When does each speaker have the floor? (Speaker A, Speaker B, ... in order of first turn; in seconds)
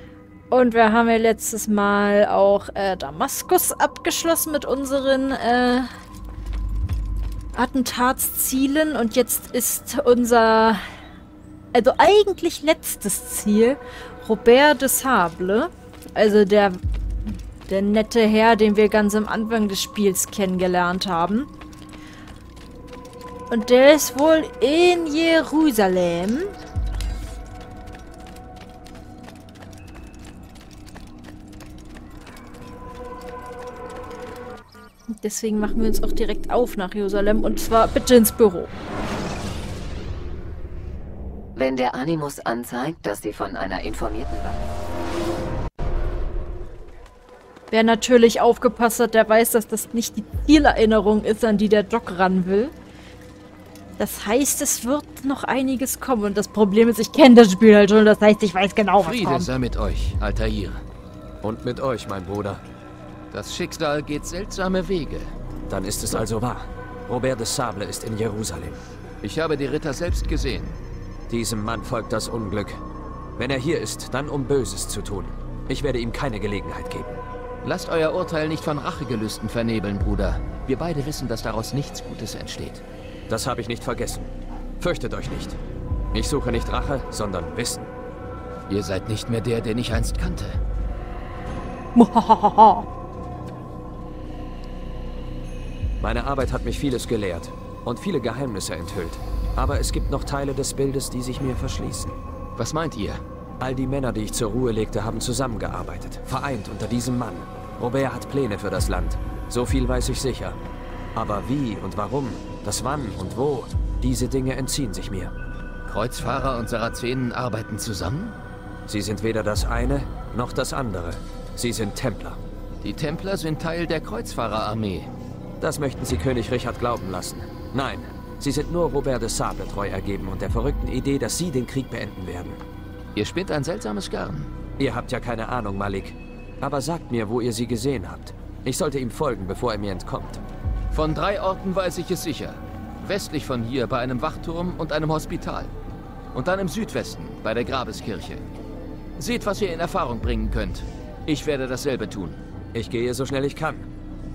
Speaker A: 0.5-5.9, 7.5-10.8, 11.7-16.8, 17.7-21.5, 23.5-26.5, 35.1-38.7, 47.7-52.8, 54.0-59.5, 92.0-92.8
Speaker B: 41.5-44.7
Speaker C: 59.0-60.8, 63.3-65.3, 69.2-70.8, 77.6-82.8, 88.7-90.6, 102.6-103.2, 115.8-118.4, 122.8-125.1, 133.1-134.5, 140.9-145.7, 146.3-148.5, 149.2-152.4
Speaker D: 61.4-62.6, 65.7-68.8, 71.3-72.8, 73.4-77.2, 83.3-85.6, 86.1-87.9, 96.0-102.2, 103.6-110.6, 111.2-115.3, 118.9-122.4, 125.6-132.6, 134.8-140.4, 152.7-153.9